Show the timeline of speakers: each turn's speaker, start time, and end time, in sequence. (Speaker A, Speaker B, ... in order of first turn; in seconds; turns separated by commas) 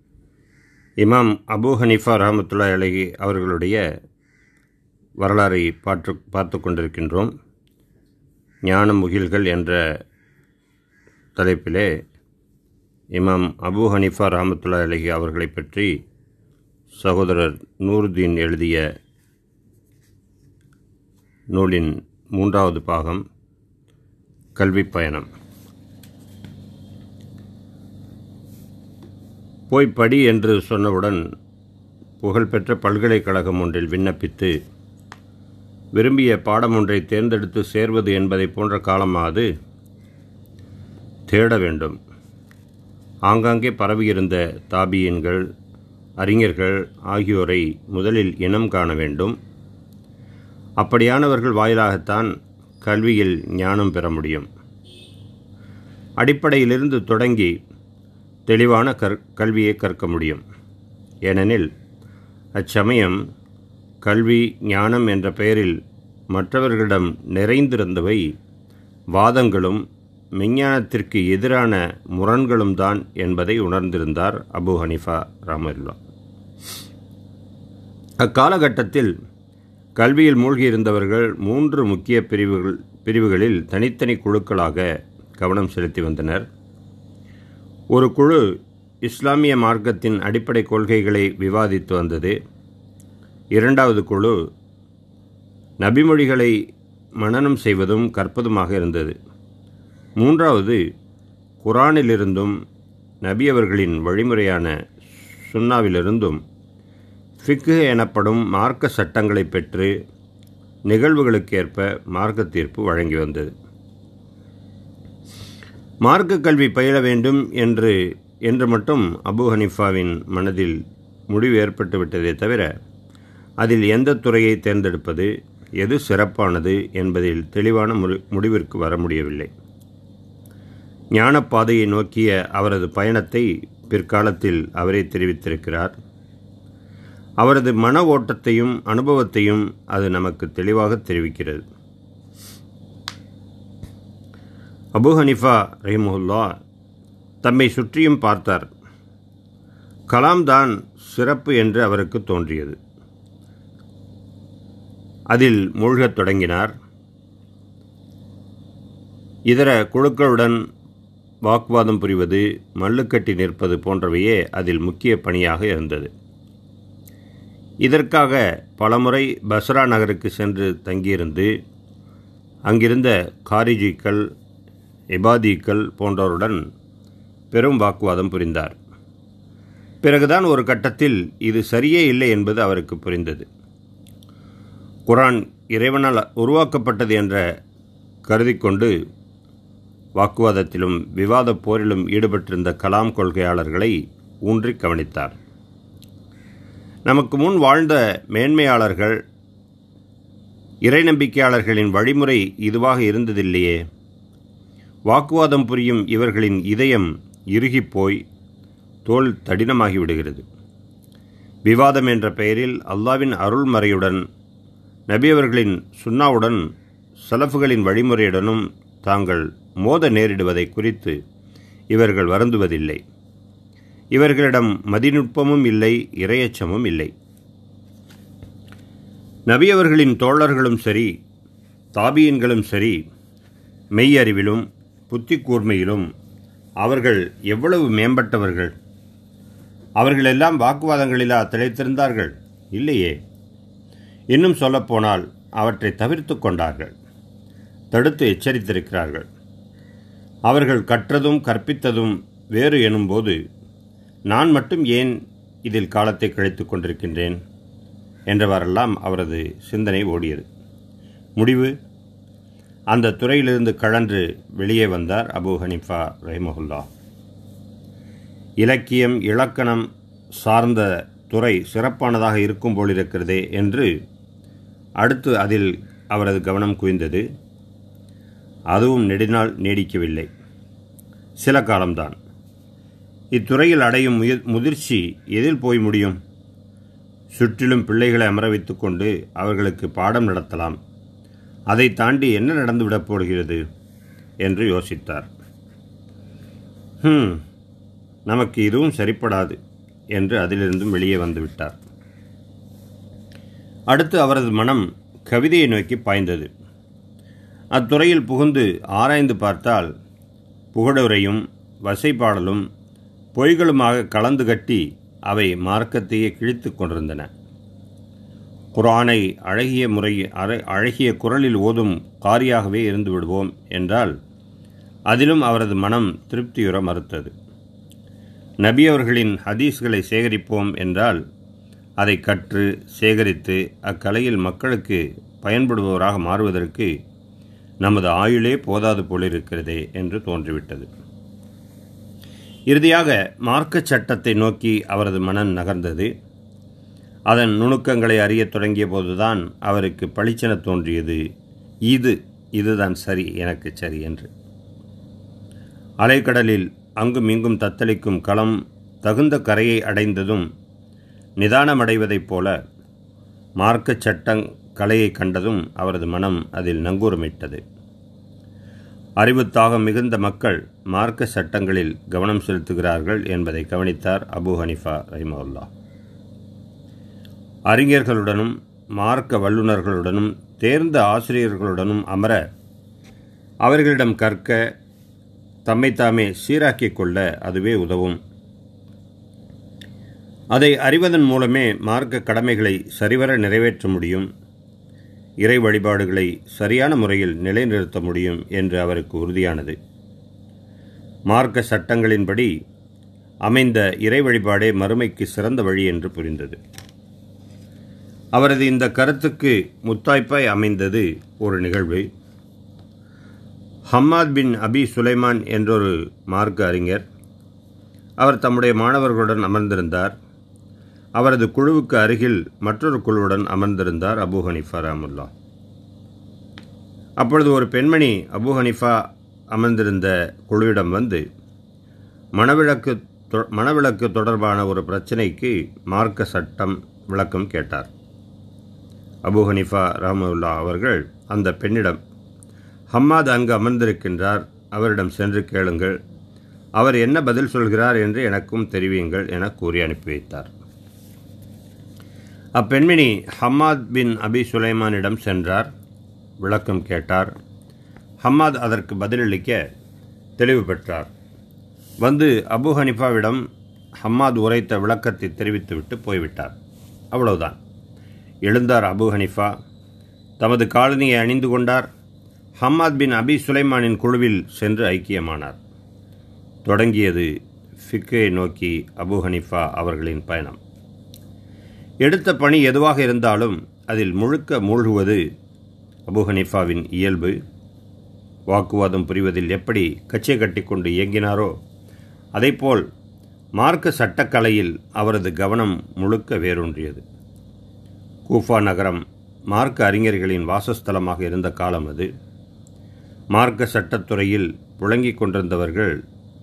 Speaker A: 1.0-3.8, Speaker A: 5.2-7.3, Speaker A: 8.7-9.8, Speaker A: 11.4-11.9, Speaker A: 13.2-15.9, Speaker A: 17.0-18.8, Speaker A: 21.5-23.2, Speaker A: 24.6-25.3, Speaker A: 29.7-31.2, Speaker A: 32.2-34.5, Speaker A: 36.0-39.5, Speaker A: 41.3-42.0, Speaker A: 43.3-45.5, Speaker A: 46.2-49.3, Speaker A: 50.8-52.3, Speaker A: 52.8-54.5, Speaker A: 56.2-57.5, Speaker A: 58.5-60.4, Speaker A: 61.3-61.7, Speaker A: 62.6-63.2, Speaker A: 64.0-65.8, Speaker A: 66.3-68.2, Speaker A: 69.2-69.8, Speaker A: 70.4-76.0, Speaker A: 78.2-79.1, Speaker A: 80.0-84.8, Speaker A: 85.4-86.5, Speaker A: 87.9-88.4, Speaker A: 89.0-92.3, Speaker A: 93.6-94.4, Speaker A: 95.8-96.5, Speaker A: 97.2-99.1, Speaker A: 100.2-100.8, Speaker A: 101.6-102.5, Speaker A: 103.2-104.7, Speaker A: 105.5-106.4, Speaker A: 107.4-109.9, Speaker A: 110.9-113.5, Speaker A: 116.0-120.8, Speaker A: 121.3-122.7, Speaker A: 123.6-129.5, Speaker A: 131.2-135.9, Speaker A: 137.4-141.6, Speaker A: 144.9-146.5, Speaker A: 147.4-148.7, Speaker A: 150.1-152.8, Speaker A: 155.3-156.7, Speaker A: 159.5-160.6, Speaker A: 161.5-166.1, Speaker A: 167.8-171.5, Speaker A: 172.7-174.3, Speaker A: 175.2-176.6, Speaker A: 177.5-178.8, Speaker A: 180.0-183.5, Speaker A: 185.1-187.4, Speaker A: 188.3-188.9, Speaker A: 190.2-193.9, Speaker A: 194.4-195.4, Speaker A: 197.1-199.2, Speaker A: 200.8-203.8, Speaker A: 205.1-208.2, Speaker A: 209.1-210.4, Speaker A: 211.7-214.2, Speaker A: 215.1-216.6, Speaker A: 217.2-221.2, Speaker A: 221.9-223.0, Speaker A: 224.1-227.1, Speaker A: 229.5-231.1, Speaker A: 231.9-233.0, Speaker A: 234.0-236.1, Speaker A: 236.8-238.7, Speaker A: 240.0-243.2, Speaker A: 244.3-246.9, Speaker A: 247.9-249.2, Speaker A: 250.5-253.4, Speaker A: 254.3-255.1, Speaker A: 255.7-257.4, Speaker A: 258.3-260.4, Speaker A: 261.4-261.7, Speaker A: 262.9-266.9, Speaker A: 268.6-269.9, Speaker A: 270.4-273.9, Speaker A: 275.0-277.2, Speaker A: 278.7-280.3, Speaker A: 281.4-282.2, Speaker A: 283.4-286.2, Speaker A: 287.3-290.8, Speaker A: 291.7-293.6, Speaker A: 294.4-295.3, Speaker A: 297.0-297.4, Speaker A: 298.3-299.6, Speaker A: 300.1-301.8, Speaker A: 303.9-306.5, Speaker A: 307.7-309.9, Speaker A: 310.7-312.6, Speaker A: 313.4-317.3, Speaker A: 318.7-324.1, Speaker A: 325.1-327.3, Speaker A: 328.6-331.2, Speaker A: 332.0-336.9, Speaker A: 337.8-340.9, Speaker A: 342.7-346.1, Speaker A: 347.3-351.2, Speaker A: 351.9-354.3, Speaker A: 356.0-360.5, Speaker A: 361.4-362.5, Speaker A: 363.6-367.6, Speaker A: 369.2-375.7, Speaker A: 377.7-382.4, Speaker A: 383.6-384.6, Speaker A: 385.7-388.2, Speaker A: 390.5-394.3, Speaker A: 395.4-399.8, Speaker A: 401.3-402.5, Speaker A: 403.5-406.6, Speaker A: 408.4-412.0, Speaker A: 413.9-417.0, Speaker A: 418.2-420.1, Speaker A: 421.2-425.3, Speaker A: 427.2-429.0, Speaker A: 429.5-431.2, Speaker A: 432.4-437.9, Speaker A: 439.2-442.0, Speaker A: 442.9-445.9, Speaker A: 446.8-450.5, Speaker A: 452.6-455.7, Speaker A: 456.4-457.3, Speaker A: 458.2-459.6, Speaker A: 460.4-461.1, Speaker A: 462.0-463.4, Speaker A: 464.0-466.6, Speaker A: 467.1-467.6, Speaker A: 468.5-469.5, Speaker A: 470.4-471.9, Speaker A: 472.6-475.6, Speaker A: 476.6-477.3, Speaker A: 477.9-480.6, Speaker A: 482.0-485.2, Speaker A: 486.1-487.4, Speaker A: 488.5-491.5, Speaker A: 492.4-492.8, Speaker A: 493.6-497.0, Speaker A: 498.3-502.1, Speaker A: 503.3-505.9